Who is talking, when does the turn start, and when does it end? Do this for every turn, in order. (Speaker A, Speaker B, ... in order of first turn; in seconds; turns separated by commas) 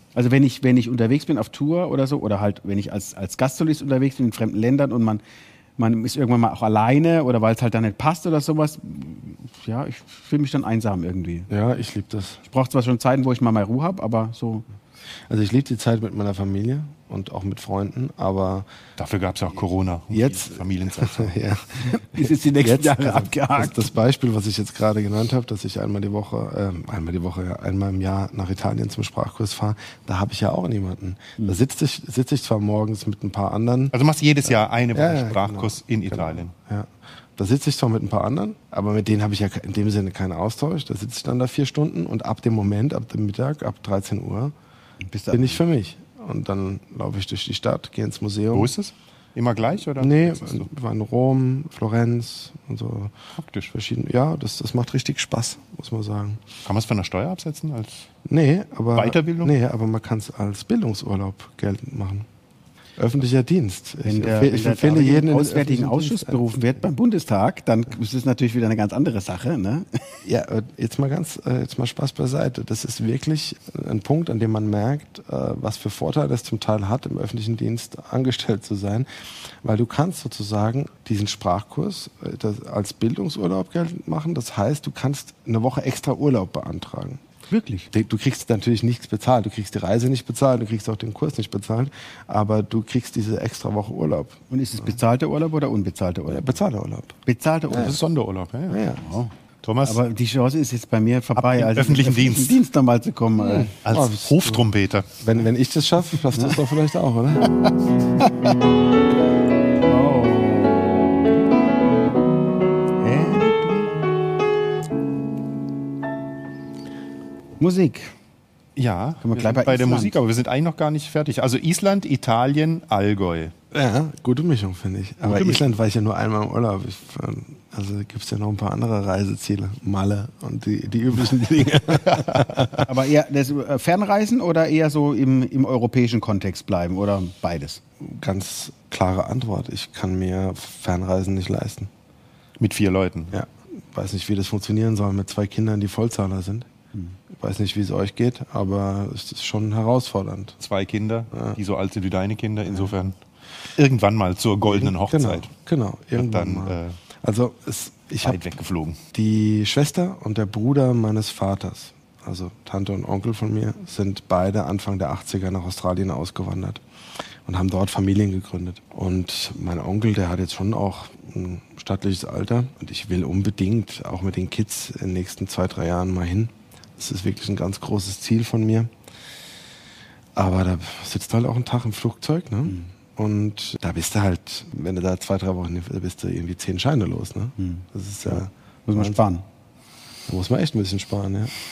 Speaker A: 0.1-5.2, Speaker A: 5.8-11.5, Speaker B: 11.5-12.4, Speaker A: 12.5-14.7, Speaker B: 15.3-18.7, Speaker C: 19.0-21.4, Speaker B: 20.1-33.9, Speaker A: 21.9-23.9, Speaker C: 33.9-36.5, Speaker B: 34.9-44.5, Speaker A: 45.0-45.6, Speaker B: 45.3-48.7, Speaker C: 48.5-50.7, Speaker B: 50.0-53.1, Speaker C: 53.4-53.7, Speaker B: 53.7-56.4, Speaker C: 56.6-58.1, Speaker B: 58.2-62.2, Speaker C: 58.9-59.5, Speaker B: 63.0-66.4, Speaker A: 64.0-70.2, Speaker B: 70.2-79.1, Speaker B: 79.6-87.2, Speaker A: 87.5-87.9, Speaker B: 87.9-94.4, Speaker A: 94.5-96.6, Speaker B: 96.3-97.2, Speaker A: 97.2-98.0, Speaker C: 97.7-98.8, Speaker B: 98.7-99.0, Speaker A: 99.0-99.3, Speaker C: 99.6-100.0, Speaker A: 99.8-103.7, Speaker C: 101.4-102.6, Speaker B: 103.5-104.7, Speaker C: 103.8-105.1, Speaker B: 105.2-107.5, Speaker A: 107.5-108.3, Speaker A: 109.9-111.2, Speaker A: 113.0-113.9, Speaker A: 117.6-118.1, Speaker C: 118.8-123.5, Speaker A: 119.2-120.2, Speaker B: 123.7-132.8, Speaker C: 125.2-125.6, Speaker C: 132.1-132.4, Speaker A: 132.8-137.8, Speaker B: 138.0-141.9, Speaker C: 142.6-143.3, Speaker B: 143.3-146.7, Speaker B: 147.3-150.6, Speaker C: 150.6-153.1, Speaker B: 151.3-151.6, Speaker C: 153.8-155.5, Speaker B: 154.6-158.4, Speaker C: 156.2-157.0, Speaker C: 158.2-159.0, Speaker B: 159.1-166.8, Speaker B: 167.5-178.9, Speaker B: 180.4-189.2, Speaker A: 187.6-187.8, Speaker A: 188.9-189.4, Speaker B: 190.3-191.5